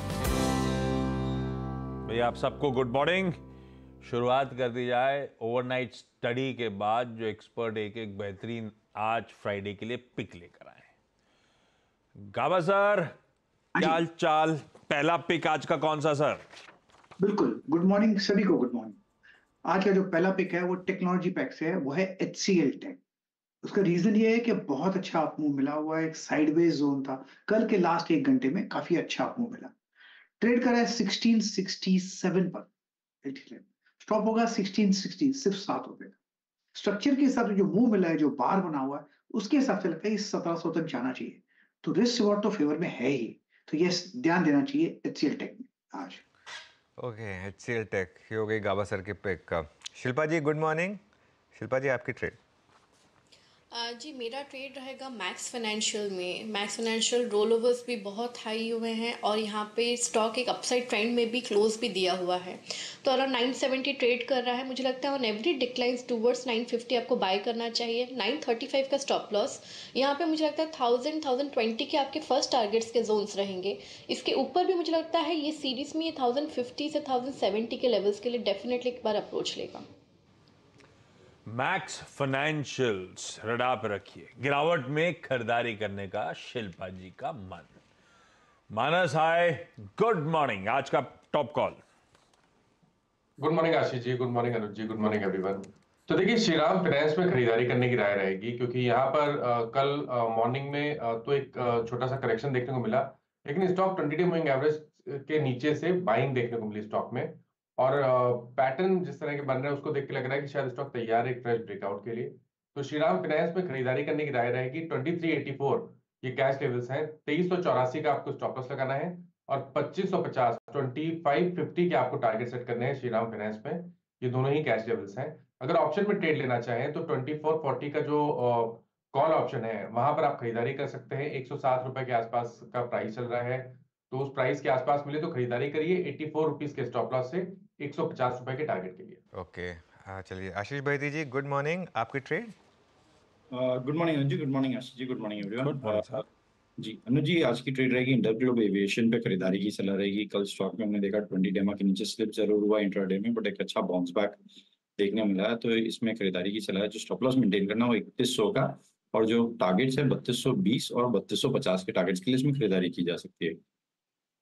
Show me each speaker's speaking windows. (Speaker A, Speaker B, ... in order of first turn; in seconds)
Speaker A: 2.1-3.4, 4.0-10.9, 12.2-13.1, 13.8-16.4, 81.5-87.7, 88.7-91.8, 145.6-146.2
Speaker B: 13.8-14.0, 17.2-19.0, 19.6-23.0, 23.6-29.7, 30.4-32.7, 33.2-36.2, 36.7-46.2
Speaker C: 47.0-51.0, 51.5-52.4, 139.3-142.5
Speaker D: 53.7-79.8
Speaker E: 93.4-139.2
Speaker F: 143.5-146.2, 146.8-154.4, 155.0-163.6